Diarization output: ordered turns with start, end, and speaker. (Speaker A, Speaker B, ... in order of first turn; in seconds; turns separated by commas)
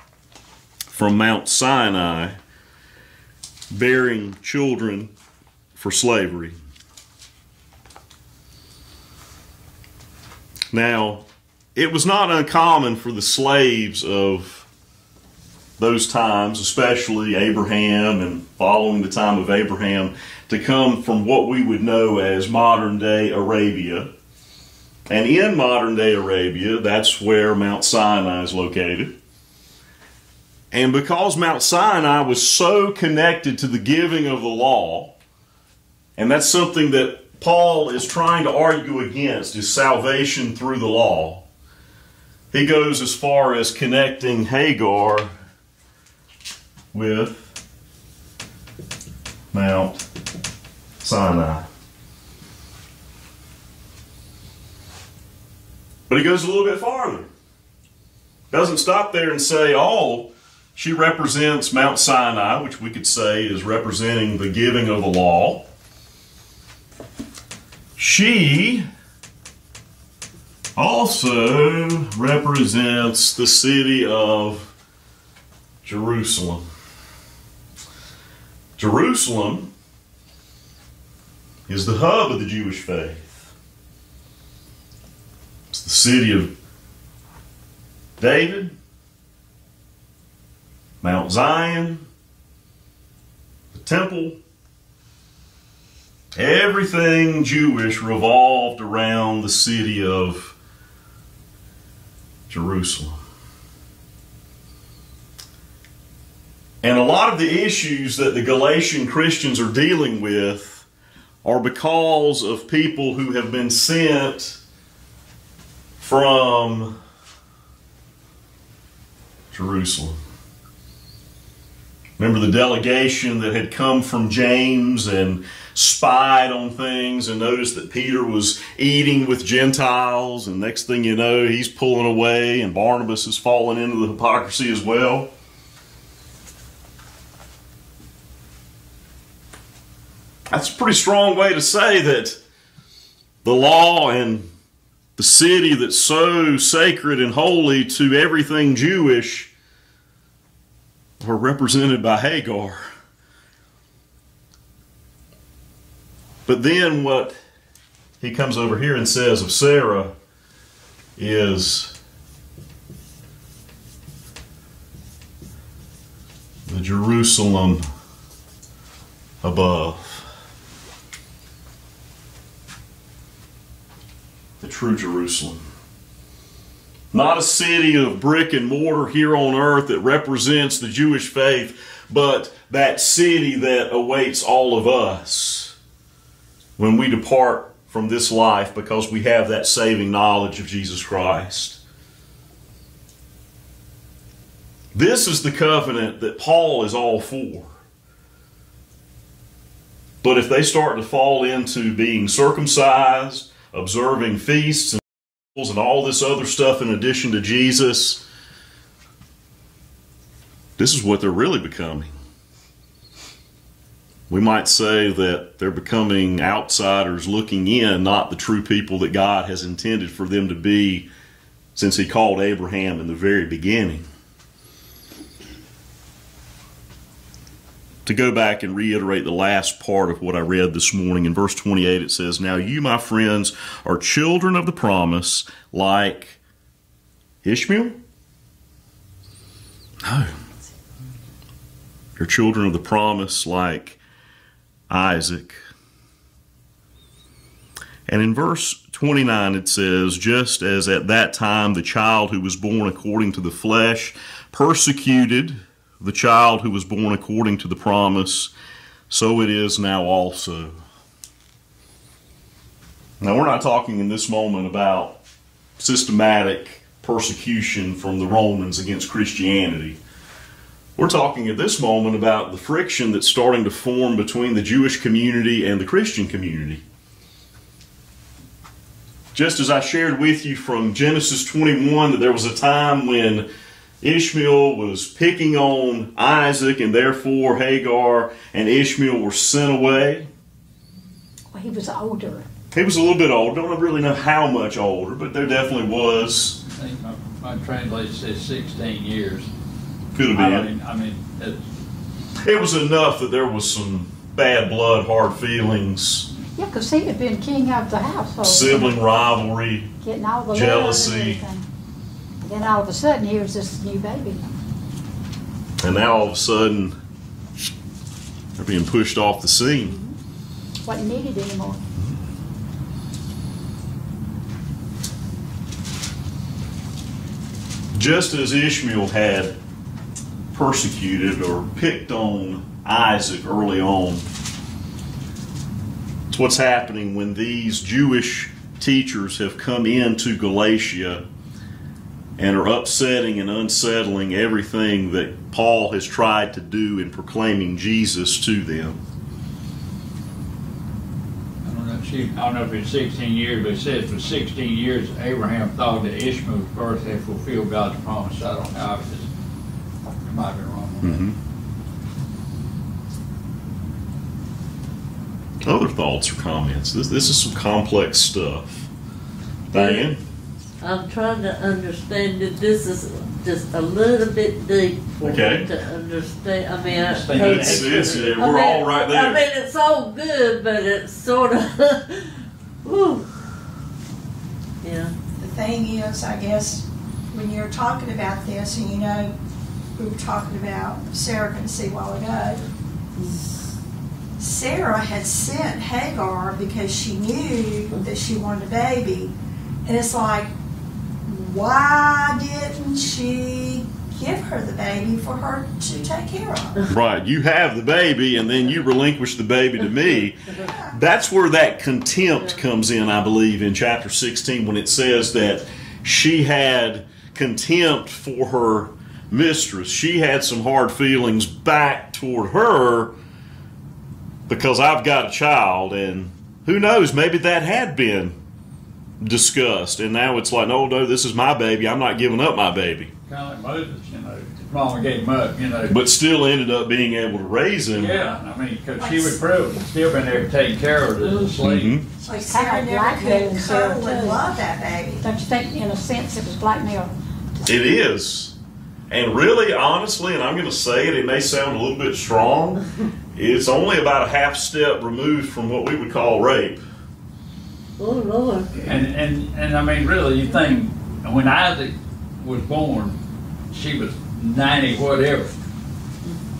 Speaker A: 0.9-2.4, Speaker A: 3.7-5.1, Speaker A: 5.8-6.5, Speaker A: 10.7-11.2, Speaker A: 11.7-14.7, Speaker A: 15.8-24.1, Speaker A: 25.1-29.1, Speaker A: 30.7-35.1, Speaker A: 36.2-41.4, Speaker A: 42.5-45.3, Speaker A: 46.9-47.5, Speaker A: 49.5-50.0, Speaker A: 51.0-51.7, Speaker A: 56.1-57.3, Speaker A: 58.5-65.6, Speaker A: 68.0-68.8, Speaker A: 70.8-74.7, Speaker A: 75.8-76.6, Speaker A: 78.8-79.7, Speaker A: 81.7-83.5, Speaker A: 85.7-86.5, Speaker A: 88.2-88.7, Speaker A: 91.0-92.0, Speaker A: 93.7-94.4, Speaker A: 96.3-100.5, Speaker A: 102.5-103.2, Speaker A: 106.8-110.8, Speaker A: 111.4-114.6, Speaker A: 116.0-117.0, Speaker A: 119.5-120.2, Speaker A: 122.2-135.3, Speaker A: 140.5-142.4, Speaker A: 143.4-144.5, Speaker A: 145.2-149.5, Speaker A: 151.2-152.8, Speaker A: 156.5-157.3, Speaker A: 158.2-160.1, Speaker A: 161.2-161.9, Speaker A: 166.7-167.8, Speaker A: 169.4-170.2, Speaker A: 174.6-175.6, Speaker A: 177.1-185.7, Speaker A: 186.8-191.8, Speaker A: 194.9-197.7, Speaker A: 200.2-208.2, Speaker A: 210.8-212.1, Speaker A: 214.3-221.1, Speaker A: 221.7-224.0, Speaker A: 228.1-236.4, Speaker A: 237.4-238.0, Speaker A: 240.0-240.3, Speaker A: 242.2-244.0, Speaker A: 244.9-245.6, Speaker A: 248.1-258.5, Speaker A: 259.1-260.8, Speaker A: 263.2-265.2, Speaker A: 265.8-270.0, Speaker A: 271.0-276.8, Speaker A: 279.3-283.5, Speaker A: 284.0-290.3, Speaker B: 291.5-292.5, Speaker A: 292.7-296.6, Speaker C: 296.8-299.5, Speaker A: 300.1-300.7, Speaker C: 300.3-301.6, Speaker A: 302.4-306.3, Speaker B: 306.6-308.9, Speaker A: 308.4-309.9, Speaker B: 310.0-311.6, Speaker A: 310.5-311.4, Speaker B: 312.4-314.6, Speaker A: 315.8-316.9, Speaker A: 318.6-320.0, Speaker B: 320.8-321.8, Speaker A: 327.9-329.5, Speaker A: 330.5-334.2, Speaker A: 336.3-341.2, Speaker A: 342.4-349.0, Speaker C: 351.6-359.3, Speaker C: 360.2-361.3, Speaker A: 361.0-361.4, Speaker A: 365.6-368.9, Speaker A: 369.7-370.2, Speaker D: 369.7-370.1, Speaker D: 370.8-383.3, Speaker A: 375.2-375.7, Speaker C: 376.9-378.3, Speaker A: 377.3-379.4, Speaker D: 384.8-385.1, Speaker E: 385.4-389.3, Speaker E: 390.0-392.6, Speaker E: 394.4-399.3, Speaker E: 399.8-400.5, Speaker E: 401.2-406.8, Speaker A: 406.9-423.1, Speaker E: 410.6-410.9, Speaker A: 424.5-428.4, Speaker A: 429.2-433.1, Speaker C: 433.3-436.0, Speaker A: 435.9-438.3, Speaker C: 437.9-442.0, Speaker D: 441.2-441.5, Speaker A: 441.6-442.1, Speaker E: 442.2-445.2, Speaker B: 442.3-444.4, Speaker B: 445.2-447.8, Speaker A: 447.6-448.5, Speaker A: 449.1-452.8, Speaker A: 453.3-456.8, Speaker D: 458.0-458.9, Speaker C: 458.8-463.2, Speaker C: 463.7-465.6